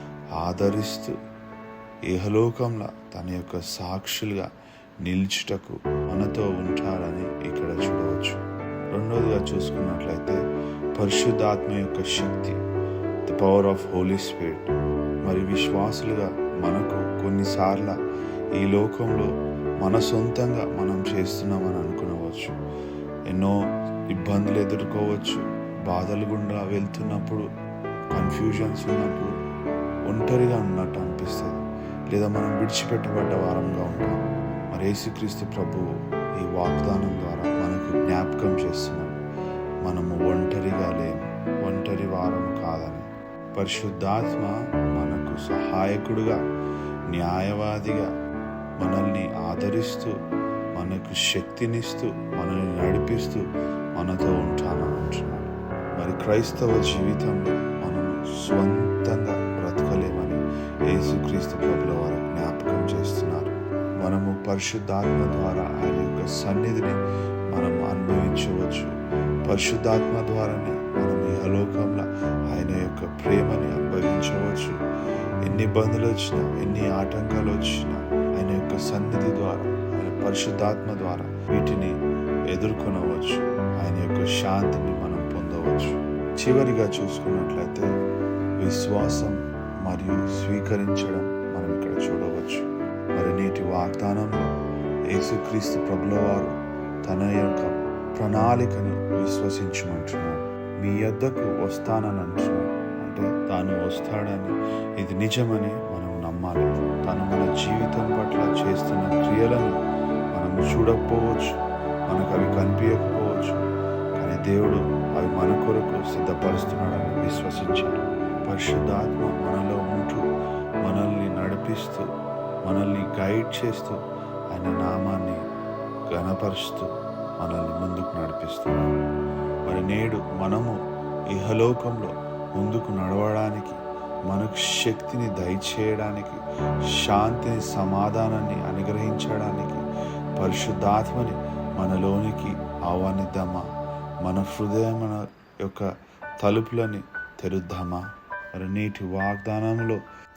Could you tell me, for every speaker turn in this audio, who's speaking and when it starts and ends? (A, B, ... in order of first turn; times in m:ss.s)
0:00.3-0:01.1 A
0:02.1-0:04.5 A
0:05.0-0:08.4 A
0:08.9-0:10.4 A
0:11.0-0:12.6 A
0:13.3-0:14.7 A
0:15.2-0:18.0 A
0:18.6-0:22.6 A
0:23.3-0:23.6 A
0:24.1-0:27.5 A
0:28.1-0:29.3 A
0:30.1-0:39.2 A
0:39.8-0:46.4 A
0:47.1-0:48.1 A
0:48.8-0:50.1 A
0:50.8-0:53.4 A
0:54.0-1:07.0 A
1:07.5-1:09.0 A
1:09.5-1:14.8 A
1:15.5-1:22.0 A
1:22.5-1:27.9 A
1:28.6-1:34.5 A
1:35.1-1:36.5 A
1:37.1-1:49.8 A
1:50.3-1:51.5 A
1:52.1-1:53.6 A
1:54.2-2:00.2 A
2:00.8-2:02.1 A
2:02.6-2:04.0 A
2:04.5-2:05.4 A
2:06.1-2:08.9 A
2:09.7-2:10.8 A
2:11.3-2:16.4 A
2:17.0-2:19.8 A
2:20.4-2:23.7 A
2:24.2-2:25.9 A
2:26.4-2:28.0 A
2:28.6-2:30.0 A